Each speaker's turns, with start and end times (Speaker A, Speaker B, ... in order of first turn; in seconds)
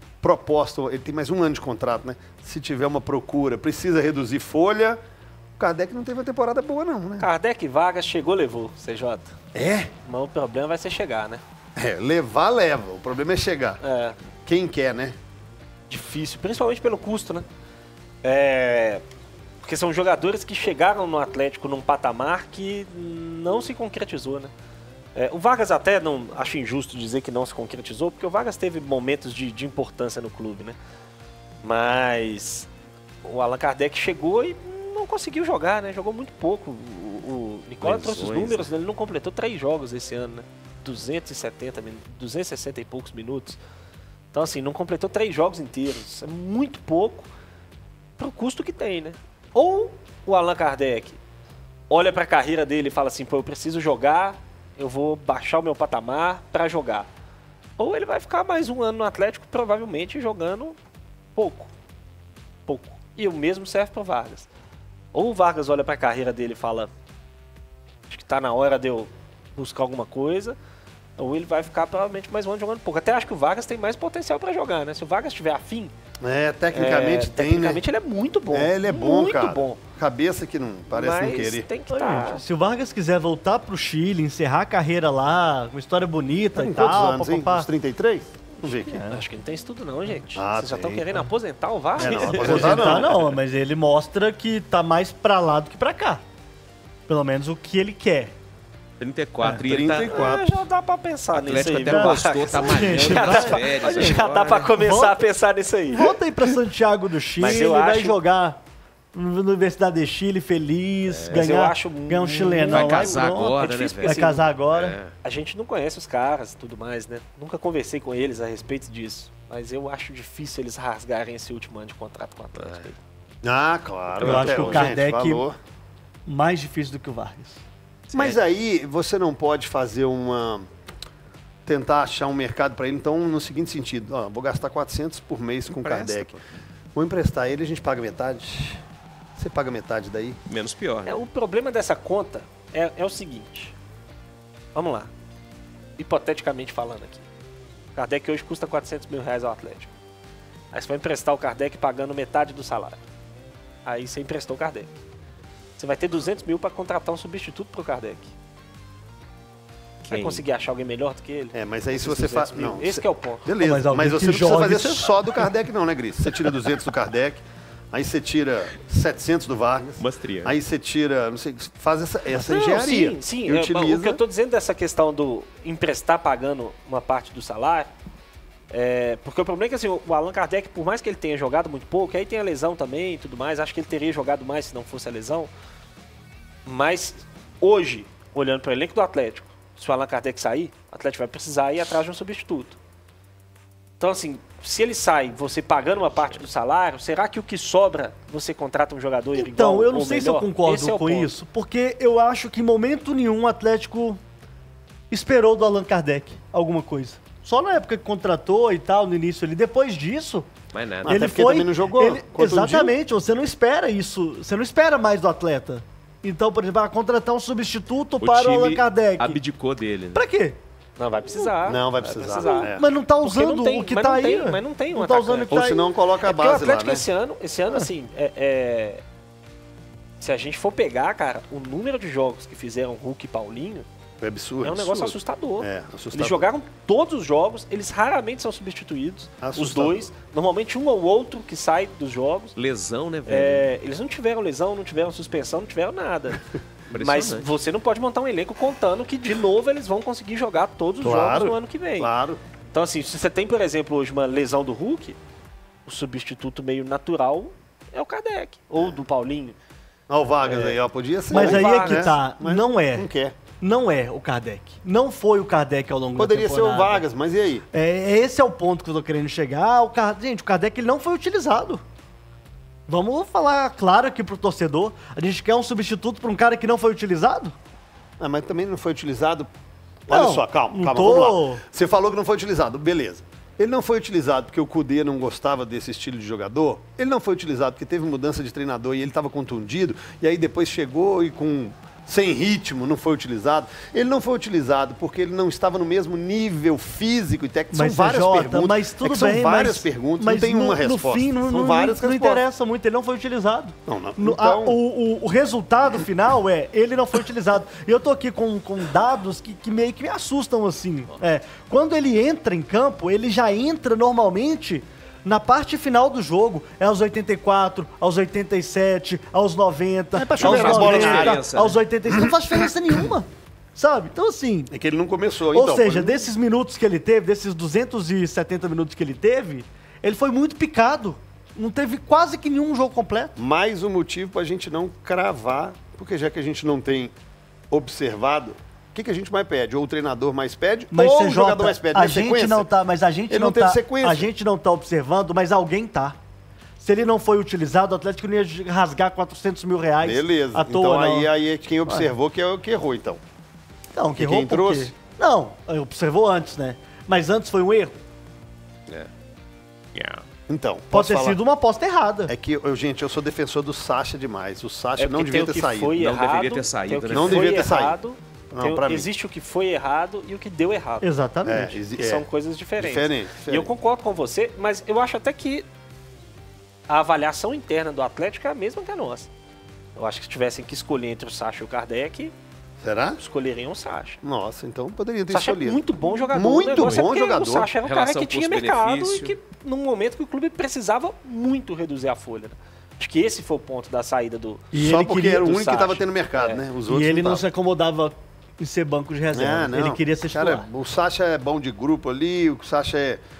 Speaker A: 0.2-5.0, 5.6-7.3, 9.5-9.9, 11.8-13.8, 14.4-15.2, 76.2-77.8, 78.5-81.7, 86.5-89.0, 90.3-91.2, 92.0-93.2, 99.6-100.6, 123.4-125.5, 128.1-130.7, 131.7-136.4, 136.9-138.8, 139.3-140.4, 161.5-174.2, 211.0-212.9, 221.6-222.9, 225.5-227.0, 234.2-236.5, 239.4-240.1, 251.0-252.4, 260.1-263.4, 266.1-267.6, 278.2-279.5, 280.1-302.4, 303.9-304.8, 320.4-321.4, 322.1-322.7, 324.7-326.3, 333.4-337.1, 337.7-342.7, 343.3-344.3, 350.0-353.2, 354.1-354.9, 360.5-361.4, 362.3-365.9, 367.1-367.9, 368.5-369.1, 371.4-372.2, 372.8-373.7, 382.8-383.2, 384.2-387.7, 394.7-397.4, 399.3-403.2
Speaker B: 7.2-9.3, 10.0-11.4, 13.8-14.2, 15.9-17.5, 18.2-19.0, 19.6-24.5, 25.1-30.8, 31.6-32.7, 33.2-43.6, 44.3-47.3, 48.2-51.2, 51.9-57.1, 57.8-60.8, 61.4-61.7, 62.7-64.5, 65.1-66.9, 68.1-70.6, 71.2-75.9, 76.7-79.8, 80.9-82.4, 89.0-93.3, 100.0-106.1, 107.4-108.2, 111.2-114.5, 115.2-123.0, 141.0-143.7, 144.7-145.1, 146.0-147.3, 147.9-149.9, 150.7-153.0, 153.8-155.0, 155.8-158.3, 160.1-163.4, 172.3-177.9, 178.7-185.5, 186.7-192.8, 194.0-201.3, 221.0-229.0, 230.2-233.8, 234.6-242.6, 243.2-252.1, 252.7-255.2, 255.8-259.6, 260.4-260.8, 261.3-262.2, 365.0-371.1, 371.9-375.6, 376.9-379.3, 379.9-382.3, 383.2-384.2, 385.3-394.7, 395.4-396.6
Speaker C: 37.8-38.7, 99.0-100.4, 101.3-104.7, 111.1-111.5, 112.7-115.1, 122.6-122.8, 124.2-124.9, 128.1-128.4, 135.7-136.4, 140.4-141.2, 160.1-160.4, 170.0-170.5, 210.7-211.3, 218.2-220.2, 242.6-243.7, 246.9-247.5, 320.2-321.8, 359.9-360.2, 365.9-367.6, 387.8-389.4
Speaker D: 81.9-87.7, 88.6-89.2, 92.0-96.2, 97.1-98.3, 101.7-104.2, 104.8-105.3, 105.9-108.6, 109.1-115.0, 124.2-125.5, 126.3-127.6, 163.6-165.4, 199.3-204.2, 205.1-210.5, 211.0-219.4, 220.1-220.6, 222.5-225.8, 261.3-263.1, 263.6-267.0, 267.7-271.8, 272.9-277.5, 280.1-281.6, 297.7-324.7, 325.5-333.4, 340.9-346.2, 346.8-351.3, 353.9-358.0, 360.9-362.3, 371.0-371.8, 394.7-395.5, 396.9-400.7